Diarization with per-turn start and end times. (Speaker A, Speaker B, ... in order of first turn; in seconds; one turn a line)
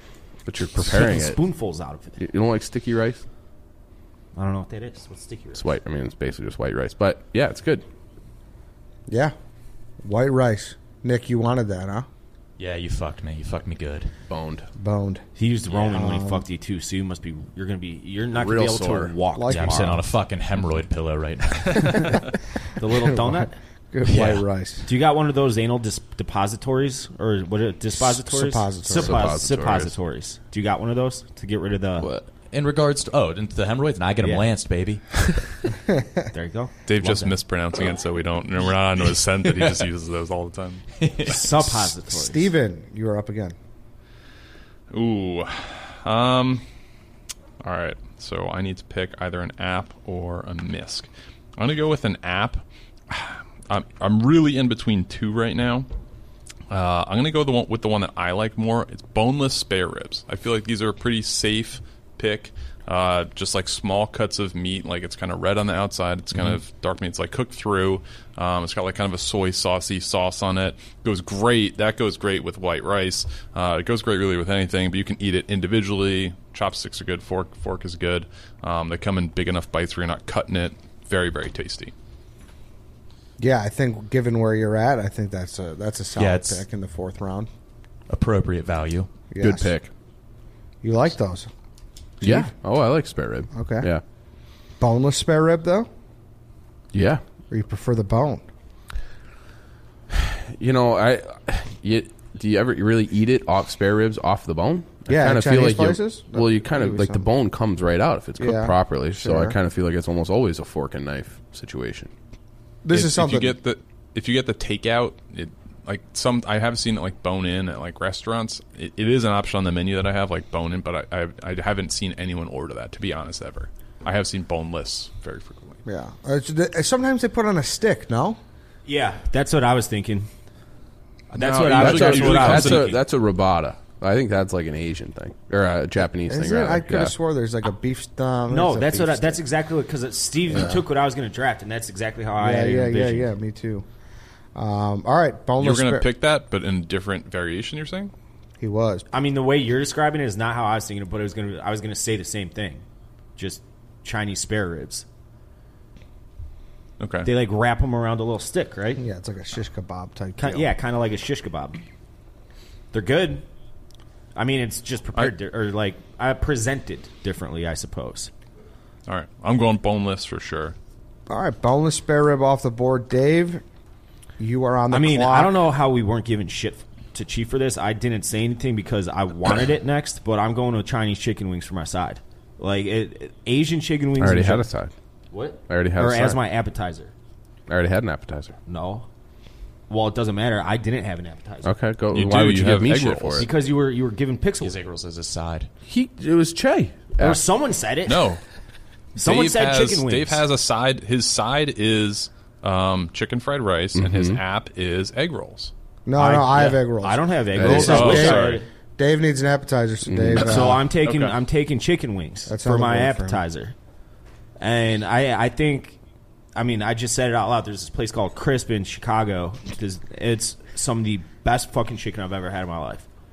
Speaker A: 0.5-1.4
Speaker B: 0.8-2.2
Speaker A: 2.2-3.2
Speaker B: 4.3-5.8
Speaker A: 5.5-7.8
Speaker C: 9.1-9.3
Speaker C: 10.0-12.1
Speaker D: 12.6-14.1
Speaker A: 14.3-14.7
Speaker C: 14.8-15.2
Speaker B: 15.3-20.0
Speaker C: 15.9-16.4
Speaker A: 18.4-19.1
Speaker C: 19.3-19.9
Speaker D: 19.4-22.1
Speaker B: 22.8-23.6
Speaker C: 22.9-24.9
Speaker D: 24.0-24.4
Speaker B: 24.8-32.1
Speaker C: 28.1-29.3
Speaker A: 28.9-29.9
Speaker A: 32.0-32.3
Speaker D: 32.5-35.7
Speaker B: 34.2-34.5
Speaker B: 36.3-37.4
Speaker E: 36.9-40.9
Speaker D: 41.0-41.5
Speaker B: 41.2-42.5
Speaker C: 42.1-43.5
Speaker E: 44.9-46.6
Speaker E: 47.6-55.9
Speaker E: 56.7-81.9
Speaker C: 83.4-87.5
Speaker D: 86.2-86.6
Speaker D: 88.1-89.1
Speaker C: 89.3-89.7
Speaker A: 89.4-89.9
Speaker C: 90.8-91.5
Speaker C: 92.2-92.5
Speaker A: 92.2-94.0
Speaker C: 93.5-93.9
Speaker C: 94.8-95.9
Speaker A: 96.9-97.2
Speaker C: 97.5-98.4
Speaker A: 100.1-112.1
Speaker C: 105.1-107.2
Speaker C: 108.4-109.6
Speaker C: 112.8-113.5
Speaker E: 112.9-125.8
Speaker C: 125.8-128.4
Speaker B: 128.8-130.3
Speaker B: 131.3-133.0
Speaker E: 131.3-132.9
Speaker A: 131.7-137.1
Speaker C: 136.3-139.4
Speaker B: 138.5-143.3
Speaker C: 140.5-140.8
Speaker C: 142.3-143.8
Speaker C: 144.5-146.1
Speaker E: 145.6-148.1
Speaker C: 148.6-149.1
Speaker B: 149.1-152.8
Speaker B: 153.4-155.1
Speaker E: 157.0-157.3
Speaker B: 157.2-159.0
Speaker C: 159.0-160.7
Speaker B: 160.4-161.8
Speaker B: 162.9-163.4
Speaker B: 164.3-168.3
Speaker E: 169.1-170.8
Speaker C: 171.3-173.6
Speaker C: 174.4-175.6
Speaker B: 174.9-184.7
Speaker A: 184.2-184.9
Speaker B: 185.3-187.1
Speaker A: 185.7-186.4
Speaker A: 187.7-188.5
Speaker B: 188.7-189.1
Speaker B: 189.9-191.7
Speaker A: 191.6-193.5
Speaker E: 192.1-193.5
Speaker B: 193.4-194.8
Speaker D: 194.6-195.7
Speaker A: 195.9-197.4
Speaker B: 197.2-198.2
Speaker E: 198.0-198.4
Speaker B: 199.2-200.4
Speaker E: 199.2-205.7
Speaker A: 203.9-204.4
Speaker C: 206.1-210.8
Speaker B: 206.2-208.7
Speaker A: 207.5-208.2
Speaker E: 207.6-208.6
Speaker A: 210.0-210.8
Speaker B: 210.3-213.7
Speaker E: 211.0-211.3
Speaker C: 212.5-213.4
Speaker B: 214.6-216.0
Speaker B: 216.5-223.1